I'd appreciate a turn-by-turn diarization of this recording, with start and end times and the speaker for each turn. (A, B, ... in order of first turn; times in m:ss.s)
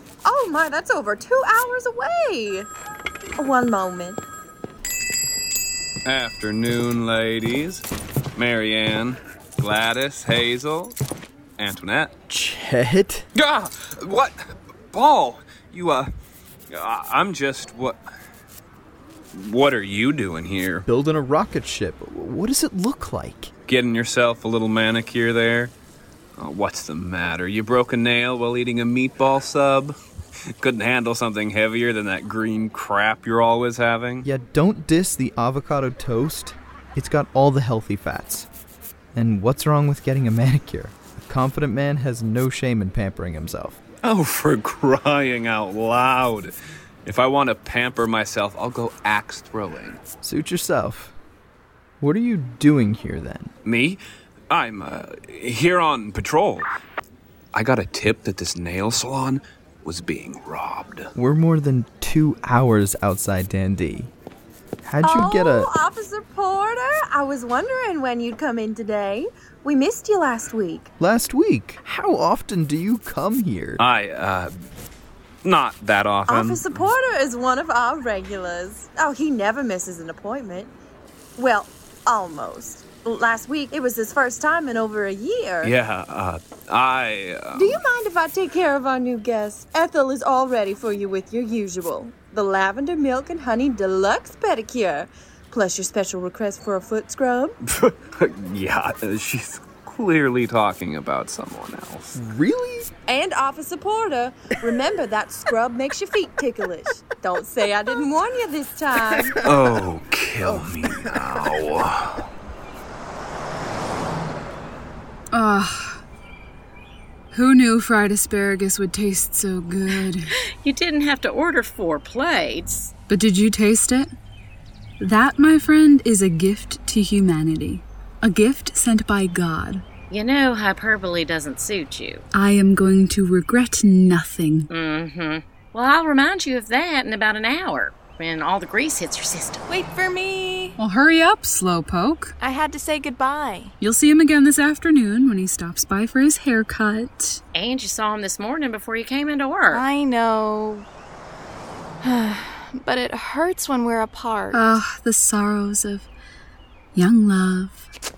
0:00.2-0:02.7 A
0:03.4-0:04.2 A
0:06.1-0:07.8 B
0:08.4-0:11.0 B
0:11.6-0:12.1 B
0:12.3-0:13.3 C
0:13.4-0:16.1 B
0:16.7-0:18.0 B
0:19.3-0:20.9 B
0:20.9-0:23.5 C
0:23.7-0:25.7 B
0:26.4-0:30.0 B
0:30.6-0:34.3 B
0:34.2-0:38.5 C
0:39.1-0:43.8 C
0:44.0-0:46.5 B
0:47.0-0:50.0 B
0:50.2-0:51.1 C
0:52.0-0:53.5 C
0:53.6-0:56.7 B
0:57.5-1:01.1 B
1:01.2-1:04.1 C
1:04.8-1:05.7 C
1:05.0-1:10.9 A
1:11.0-1:13.8 C
1:13.8-1:14.5 B
1:15.4-1:16.8 B
1:16.3-1:20.7 A
1:21.4-1:25.7 A
1:25.6-1:27.8 B
1:27.5-1:37.6 A
1:37.6-1:42.2 B
1:42.1-1:42.9 C
1:43.1-1:49.4 A
1:49.3-1:49.6 C
1:49.4-1:52.2 B
1:50.8-1:51.1 C
1:55.3-1:56.0 D
1:57.3-2:00.3 D
2:00.6-2:02.9 E
2:03.1-2:04.1 D
2:05.0-2:09.8 D
2:10.1-2:12.2 E
2:12.3-2:14.7 D
2:14.7-2:19.6 E
2:19.7-2:20.8 F
2:20.8-2:22.4 D
2:22.4-2:23.7 F
2:23.8-2:27.4 D
2:27.6-2:29.8 E
2:29.7-2:30.8 F
2:32.0-2:34.6 F
2:34.5-2:36.1 D
2:37.0-2:37.9 D